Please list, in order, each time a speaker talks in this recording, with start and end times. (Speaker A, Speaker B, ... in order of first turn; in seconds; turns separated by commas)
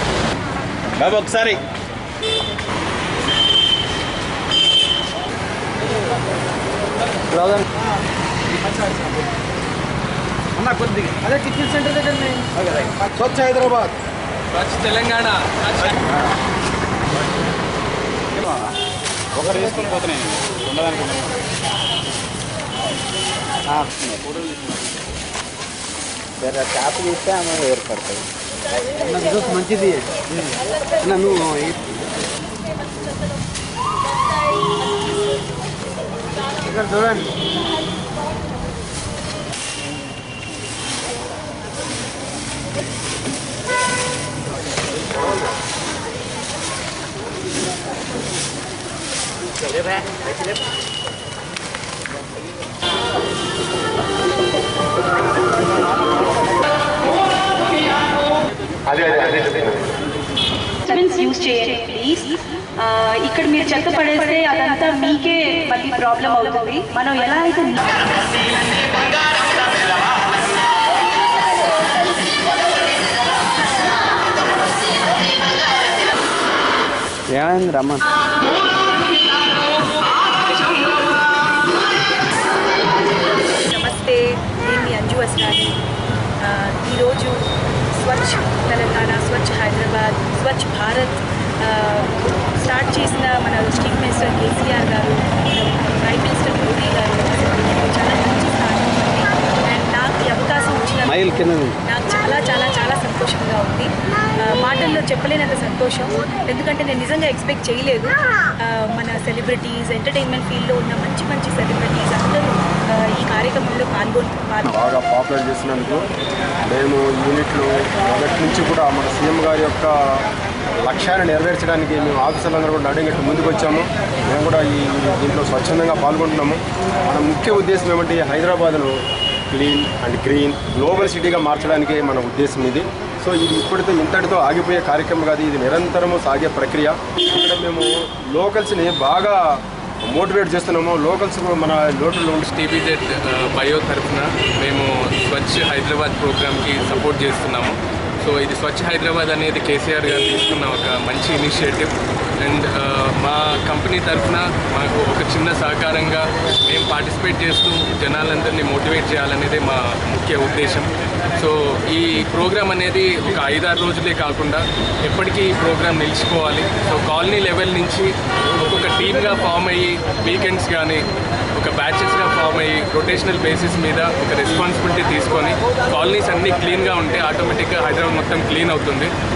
Speaker A: 1.0-1.6, Speaker B: 7.3-7.7, Speaker C: 11.0-12.5, Speaker A: 12.6-12.9, Speaker C: 13.2-13.9, Speaker D: 14.5-16.0, Speaker A: 18.3-18.7, Speaker A: 19.4-21.4, Speaker A: 23.8-24.9, Speaker B: 26.4-28.3, Speaker C: 29.1-30.0, Speaker B: 29.5-30.0, Speaker B: 31.0-31.5, Speaker C: 31.2-31.7, Speaker C: 36.7-37.2, Speaker E: 58.9-59.9, Speaker F: 60.9-68.0, Speaker B: 77.3-78.1, Speaker F: 83.6-85.8, Speaker F: 86.4-87.4, Speaker F: 88.0-101.3, Speaker B: 101.0-101.8, Speaker F: 101.8-114.7, Speaker E: 114.7-116.1, Speaker E: 116.7-120.2, Speaker E: 120.8-129.0, Speaker E: 129.5-139.4, Speaker E: 140.1-142.4, Speaker D: 142.4-179.1